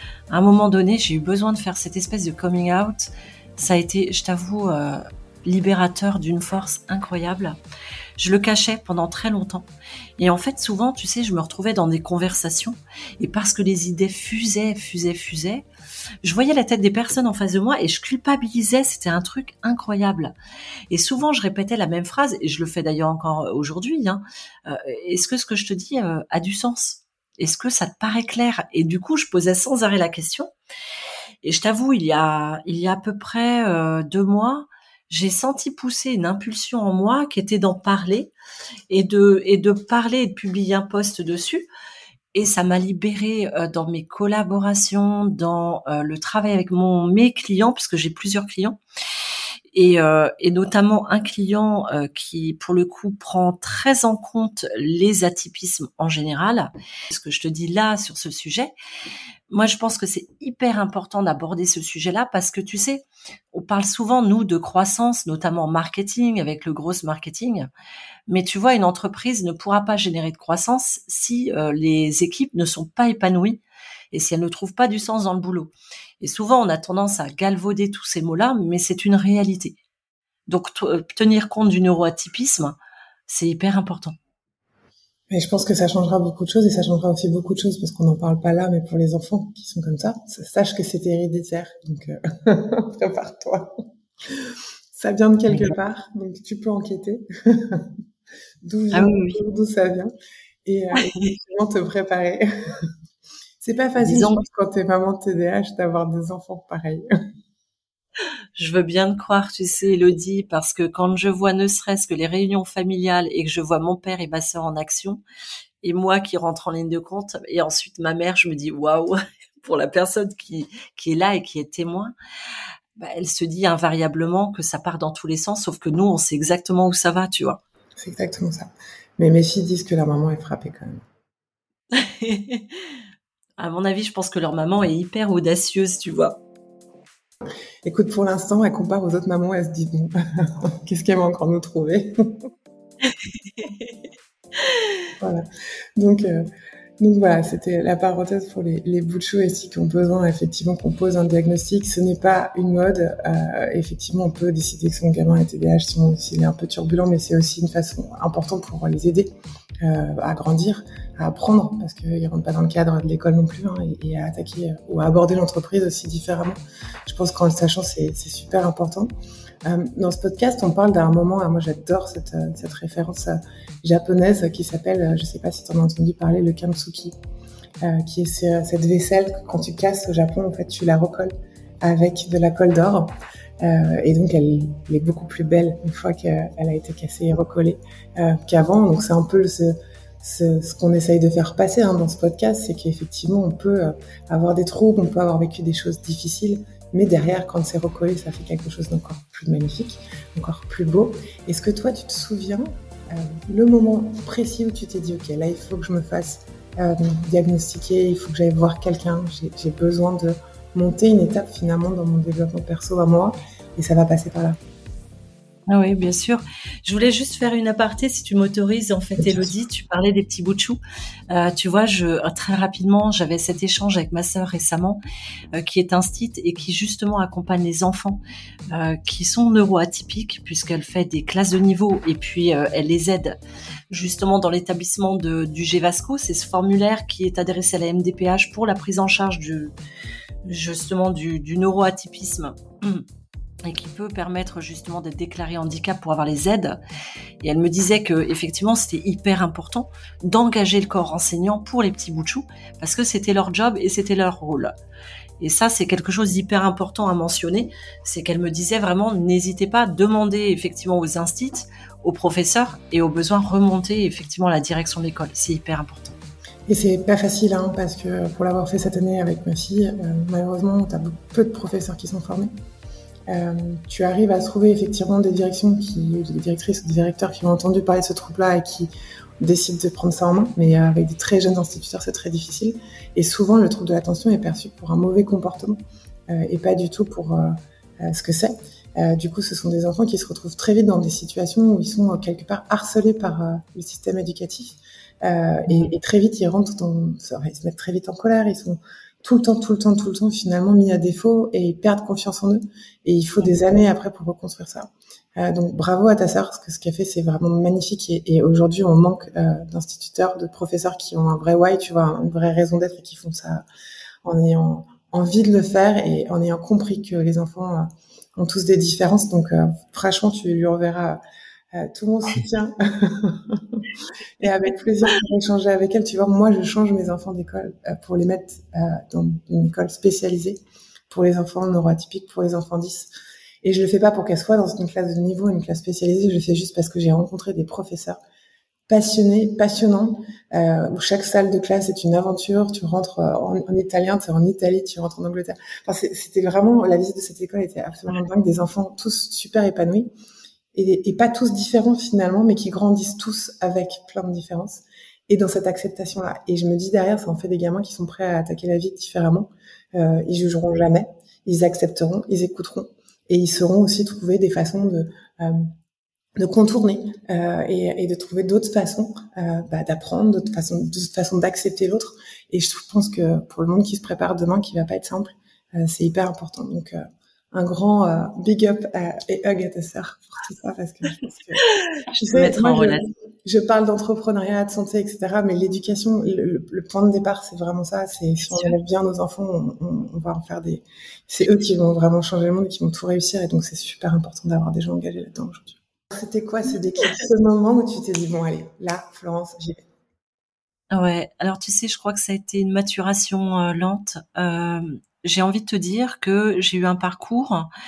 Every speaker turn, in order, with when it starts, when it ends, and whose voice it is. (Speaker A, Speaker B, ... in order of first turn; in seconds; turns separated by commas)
Speaker A: 0.3-7.6, Speaker A: 8.2-9.7, Speaker A: 10.2-15.7, Speaker A: 16.2-20.3, Speaker A: 20.9-30.5, Speaker A: 31.4-38.3, Speaker A: 38.9-41.7, Speaker A: 42.3-48.8, Speaker A: 49.7-58.7, Speaker A: 59.5-67.7, Speaker A: 68.3-73.6, Speaker A: 74.1-79.8, Speaker A: 80.5-84.2, Speaker B: 85.3-97.9, Speaker A: 95.5-95.7, Speaker B: 98.6-100.1, Speaker A: 98.9-99.4, Speaker B: 100.6-102.9, Speaker A: 101.0-101.3, Speaker B: 103.6-107.0, Speaker A: 104.0-104.4, Speaker A: 108.5-115.2, Speaker A: 115.8-122.1, Speaker A: 123.0-127.6, Speaker B: 128.0-131.0, Speaker A: 131.9-132.7, Speaker A: 133.6-136.4, Speaker B: 137.8-142.4, Speaker A: 143.1-143.9, Speaker B: 145.2-145.4, Speaker B: 146.0-146.5, Speaker B: 147.0-169.1, Speaker B: 169.6-177.2, Speaker B: 177.8-214.6, Speaker A: 215.7-225.0, Speaker B: 219.2-219.5, Speaker A: 225.5-233.4, Speaker A: 233.9-239.7, Speaker A: 240.4-243.0, Speaker A: 243.6-246.8, Speaker A: 247.4-254.7, Speaker A: 255.4-266.2, Speaker B: 266.7-272.5, Speaker B: 273.3-313.6, Speaker B: 314.2-321.2, Speaker B: 321.7-333.1, Speaker B: 333.6-338.2, Speaker B: 338.9-350.1, Speaker B: 350.7-365.7, Speaker B: 366.4-377.0, Speaker B: 377.5-381.6, Speaker A: 382.1-383.1, Speaker B: 382.2-399.8, Speaker A: 388.4-388.8, Speaker A: 400.9-407.7